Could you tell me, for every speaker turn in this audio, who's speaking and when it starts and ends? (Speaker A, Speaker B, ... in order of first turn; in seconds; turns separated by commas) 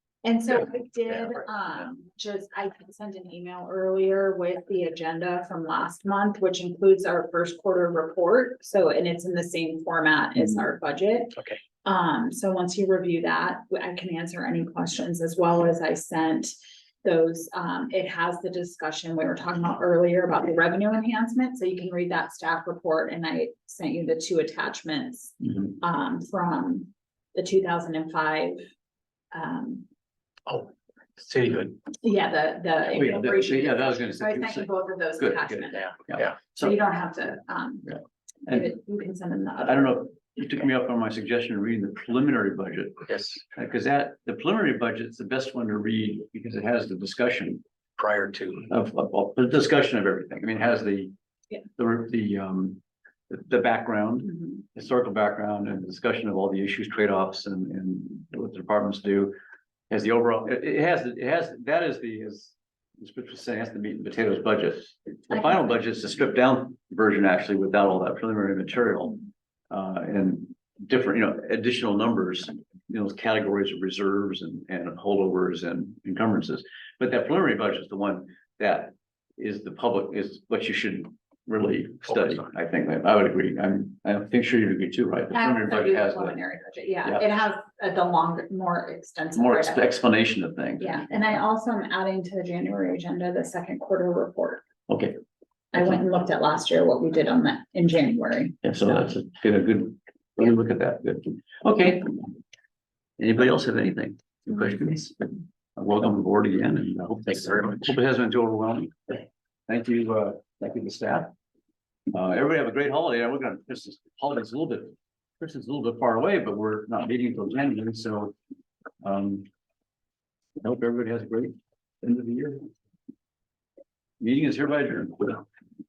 Speaker A: 0.2-28.7, Speaker A: 29.3-29.9, Speaker B: 30.5-31.9, Speaker A: 32.0-40.0, Speaker C: 32.9-36.7, Speaker C: 37.9-38.7, Speaker C: 39.6-47.6, Speaker B: 43.1-43.4, Speaker B: 48.0-48.7, Speaker C: 48.7-51.1, Speaker C: 51.8-59.3, Speaker C: 59.9-86.4, Speaker A: 85.3-89.9, Speaker C: 89.3-91.1, Speaker A: 90.8-94.6, Speaker C: 94.9-95.2, Speaker A: 95.7-98.6, Speaker C: 98.6-102.3, Speaker C: 103.2-111.3, Speaker B: 107.3-107.9, Speaker C: 112.1-118.3, Speaker C: 119.0-119.5, Speaker C: 120.6-122.7, Speaker C: 124.2-125.5